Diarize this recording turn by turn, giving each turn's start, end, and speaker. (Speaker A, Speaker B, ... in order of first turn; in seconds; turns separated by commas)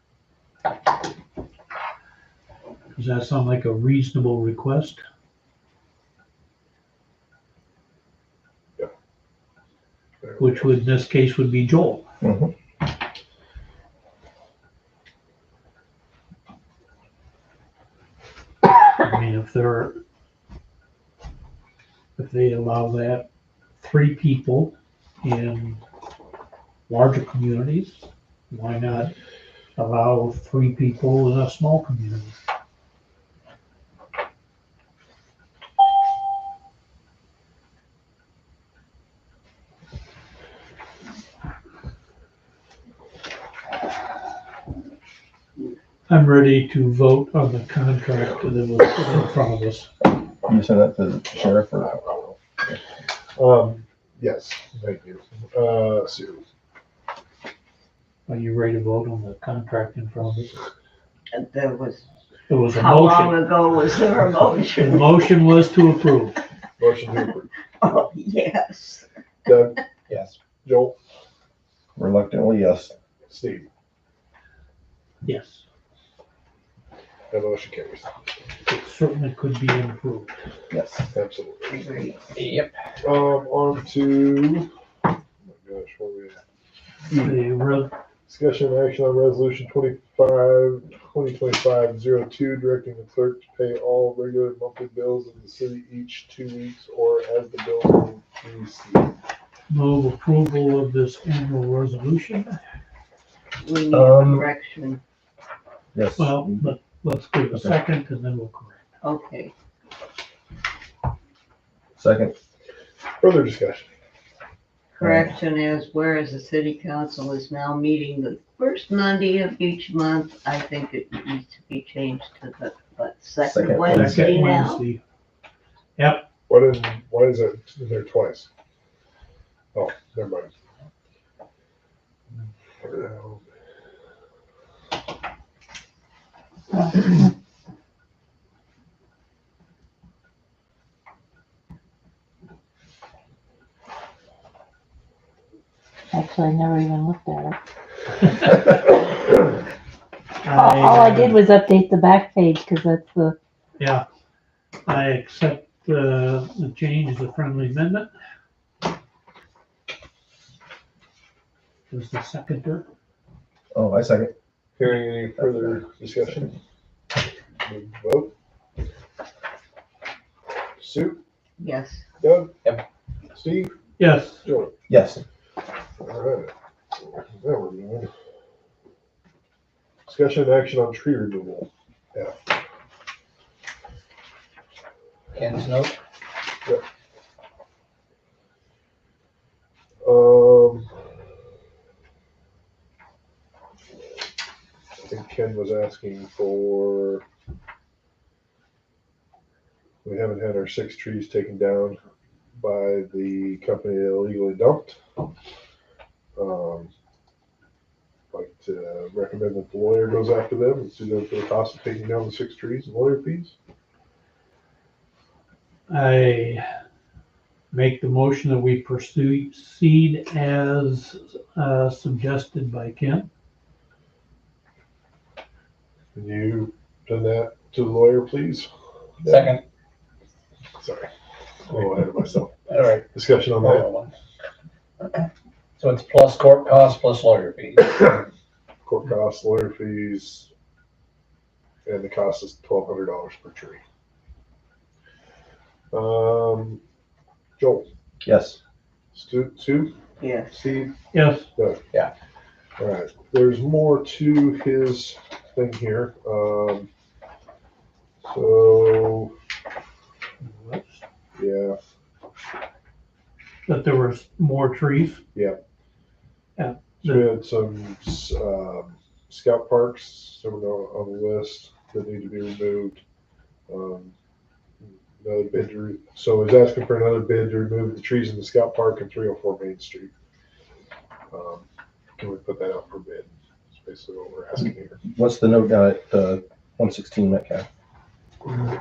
Speaker A: 3.0-5.0, Speaker B: 10.2-10.6, Speaker A: 10.4-12.0, Speaker C: 12.2-12.5, Speaker A: 19.0-20.0, Speaker A: 22.2-23.3, Speaker A: 23.8-25.8, Speaker A: 26.9-29.1, Speaker A: 29.8-32.4, Speaker A: 46.1-49.9, Speaker C: 50.5-51.9, Speaker B: 51.4-52.4, Speaker B: 53.4-56.4, Speaker A: 58.3-60.6, Speaker D: 61.3-62.0, Speaker A: 62.5-63.4, Speaker D: 62.7-65.2, Speaker A: 64.8-66.4, Speaker B: 66.8-67.5, Speaker D: 67.8-69.0, Speaker B: 69.5-69.8, Speaker E: 70.1-70.4, Speaker B: 70.6-71.0, Speaker C: 72.0-72.9, Speaker B: 73.3-73.7, Speaker A: 75.2-75.6, Speaker B: 77.3-78.1, Speaker A: 78.7-80.4, Speaker C: 80.7-81.1, Speaker B: 81.1-81.8, Speaker D: 81.7-82.2, Speaker E: 82.4-82.7, Speaker B: 83.0-84.7, Speaker B: 85.5-86.4, Speaker A: 87.1-87.9, Speaker B: 88.3-99.1, Speaker A: 99.7-102.6, Speaker D: 103.6-105.0, Speaker C: 103.9-104.5, Speaker C: 105.9-106.7, Speaker A: 106.2-108.8, Speaker C: 107.5-107.8, Speaker D: 109.0-109.5, Speaker C: 112.0-112.3, Speaker B: 113.2-113.9, Speaker D: 115.0-124.8, Speaker C: 115.0-115.3, Speaker C: 123.4-124.3, Speaker A: 123.9-125.0, Speaker A: 126.0-126.3, Speaker B: 126.5-128.5, Speaker B: 129.7-130.5, Speaker B: 132.8-133.4, Speaker F: 136.7-137.3, Speaker F: 146.1-147.6, Speaker A: 150.4-151.4, Speaker F: 150.5-153.4, Speaker A: 153.8-154.1, Speaker A: 154.8-158.1, Speaker A: 161.9-162.9, Speaker C: 163.7-164.3, Speaker B: 164.8-166.6, Speaker C: 165.4-166.4, Speaker B: 167.6-168.3, Speaker B: 170.8-171.2, Speaker D: 171.6-172.0, Speaker B: 172.2-172.5, Speaker B: 173.3-173.8, Speaker A: 174.0-174.4, Speaker B: 174.4-174.7, Speaker C: 174.9-175.2, Speaker B: 176.0-178.1, Speaker B: 180.1-182.6, Speaker E: 185.3-186.0, Speaker B: 190.0-190.9, Speaker B: 195.0-197.2, Speaker B: 200.0-202.0, Speaker B: 202.6-205.0, Speaker B: 206.3-206.9, Speaker B: 208.3-213.6, Speaker A: 215.9-216.7, Speaker A: 217.7-223.3, Speaker B: 226.2-228.7, Speaker E: 229.2-229.6, Speaker B: 230.8-231.1, Speaker B: 231.7-233.9, Speaker E: 232.7-234.1, Speaker E: 235.8-238.2, Speaker B: 238.8-240.5, Speaker B: 241.9-243.8, Speaker B: 245.9-246.8, Speaker B: 247.6-247.9, Speaker C: 248.2-248.6, Speaker B: 249.1-250.0, Speaker D: 250.2-250.5, Speaker B: 250.5-250.9, Speaker A: 251.1-251.5, Speaker B: 251.5-251.8, Speaker B: 252.8-256.9, Speaker B: 258.2-259.3, Speaker A: 260.4-261.0, Speaker B: 261.4-261.8, Speaker A: 263.6-265.2, Speaker B: 265.3-265.6, Speaker A: 266.6-267.3, Speaker B: 267.0-273.0, Speaker B: 273.7-274.1, Speaker B: 274.8-280.1, Speaker B: 281.3-281.6, Speaker B: 282.2-285.0, Speaker C: 285.0-287.6